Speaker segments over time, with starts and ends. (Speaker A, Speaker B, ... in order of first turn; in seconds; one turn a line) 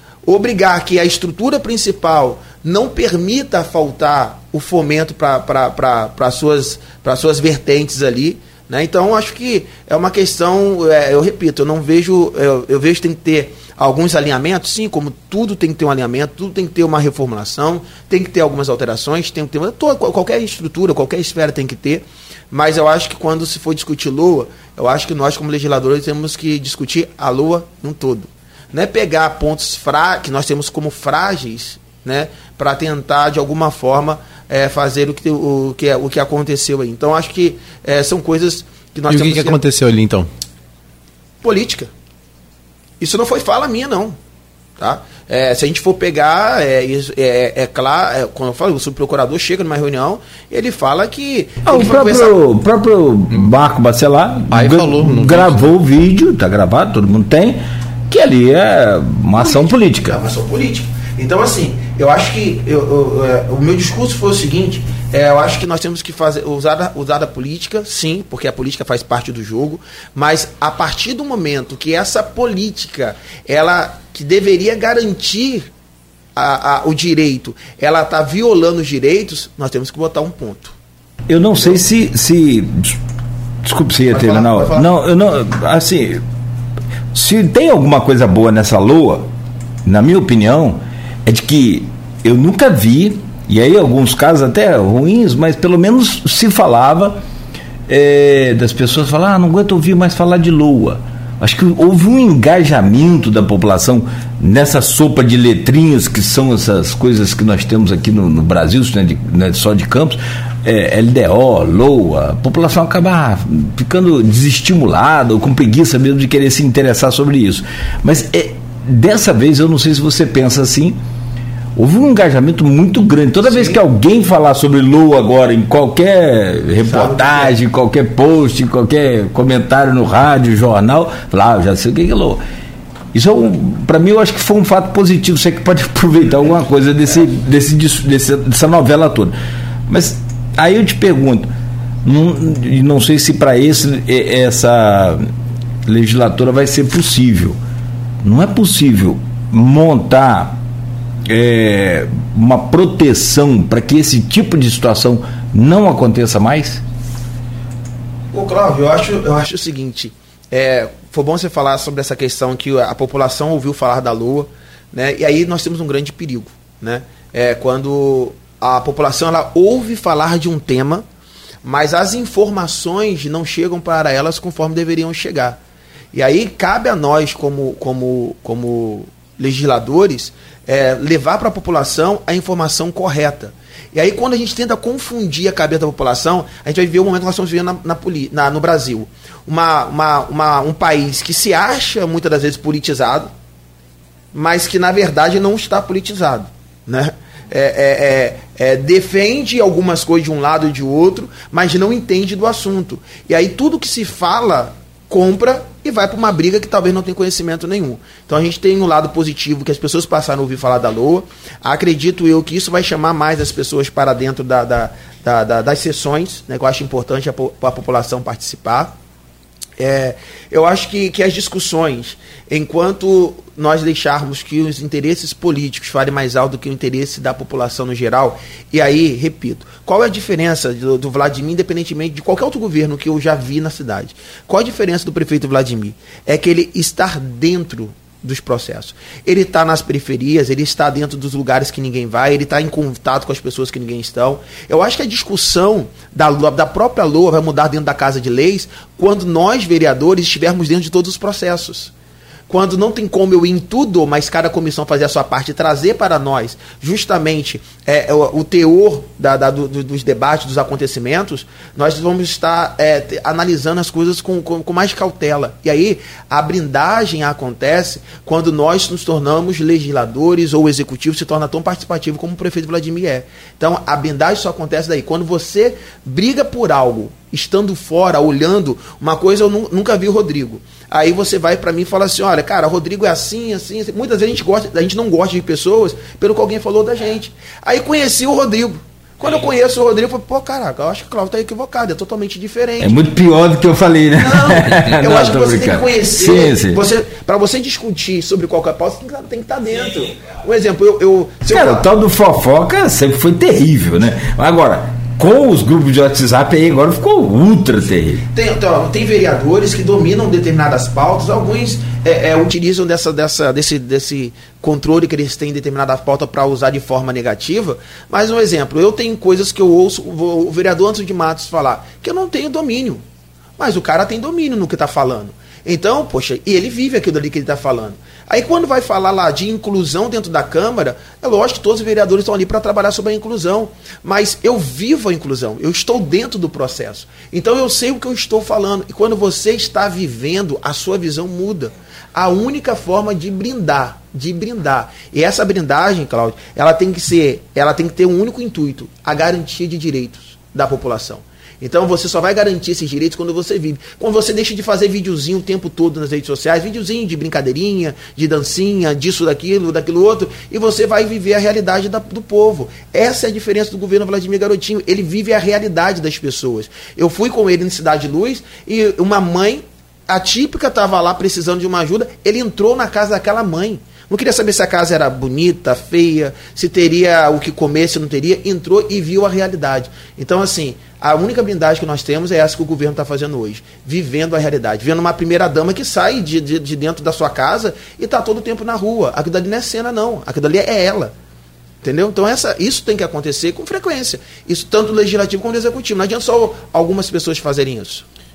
Speaker A: 0.2-39.6
Speaker B: 39.1-40.3
Speaker A: 41.4-41.9
Speaker A: 43.0-44.1
Speaker A: 44.8-52.4
Speaker C: 51.6-60.2
Speaker B: 54.5-55.6
Speaker A: 59.4-75.7
Speaker A: 76.3-80.7
Speaker C: 81.3-83.0
Speaker A: 81.5-81.8
Speaker C: 83.6-86.2
Speaker A: 84.1-84.9
Speaker C: 87.1-89.3
Speaker C: 89.8-97.2
Speaker C: 97.9-121.0
Speaker C: 121.8-132.4
Speaker A: 123.5-123.8
Speaker A: 126.8-127.5
Speaker C: 133.1-139.3
Speaker C: 139.9-141.5
Speaker C: 142.0-145.3
Speaker C: 145.8-147.6
Speaker C: 148.2-150.6
Speaker C: 151.2-156.8
Speaker A: 158.3-171.0
Speaker A: 171.6-175.6
Speaker A: 176.1-193.3
Speaker A: 194.3-218.9
Speaker A: 219.8-251.9
Speaker A: 252.5-293.0
Speaker C: 292.8-296.8
Speaker A: 294.1-301.9
Speaker C: 301.5-308.2
Speaker A: 308.3-323.0
Speaker A: 323.6-391.1
Speaker A: 391.8-398.0